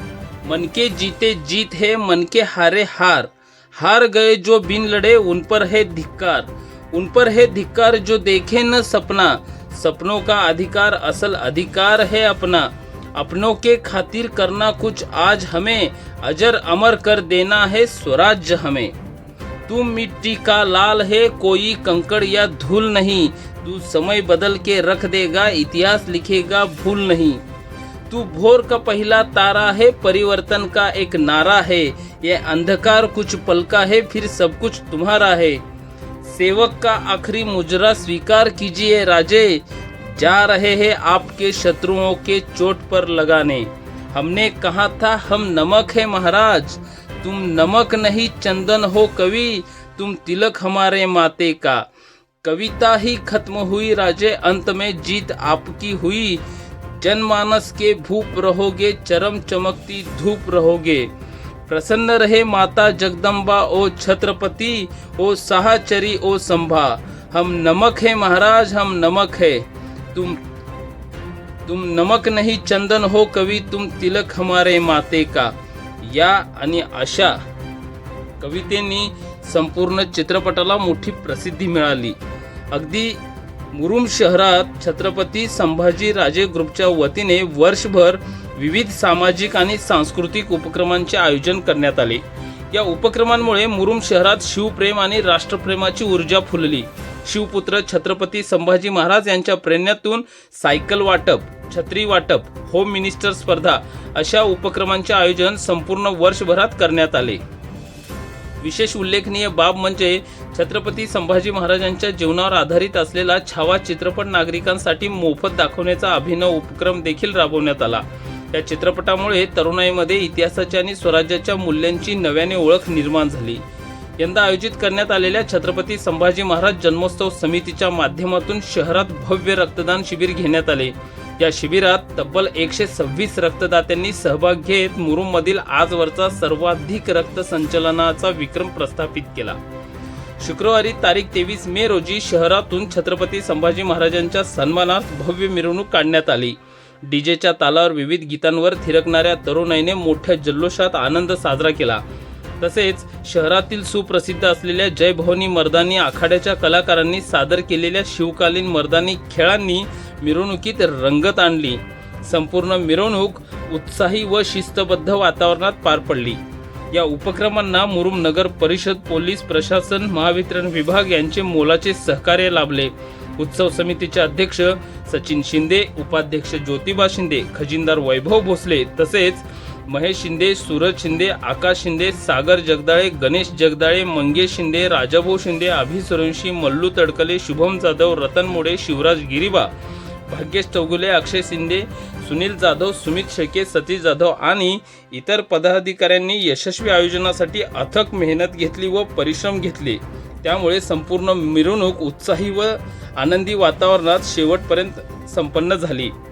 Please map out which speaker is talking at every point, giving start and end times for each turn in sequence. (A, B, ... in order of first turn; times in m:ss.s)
0:00.4-0:18.9 A
0:19.7-0:27.4 A
0:28.1-0:35.6 A
0:36.2-0:51.8 A
0:52.4-0:56.4 A
0:57.0-1:01.1 A
1:01.7-1:10.4 A
1:11.6-1:17.4 A
1:18.4-1:22.2 A
1:22.7-1:23.2 A
1:23.7-1:47.4 A
1:48.6-2:03.6 A
2:04.2-2:19.6 A
2:20.4-2:32.0 A
2:32.6-3:09.7 A
3:10.3-3:26.1 A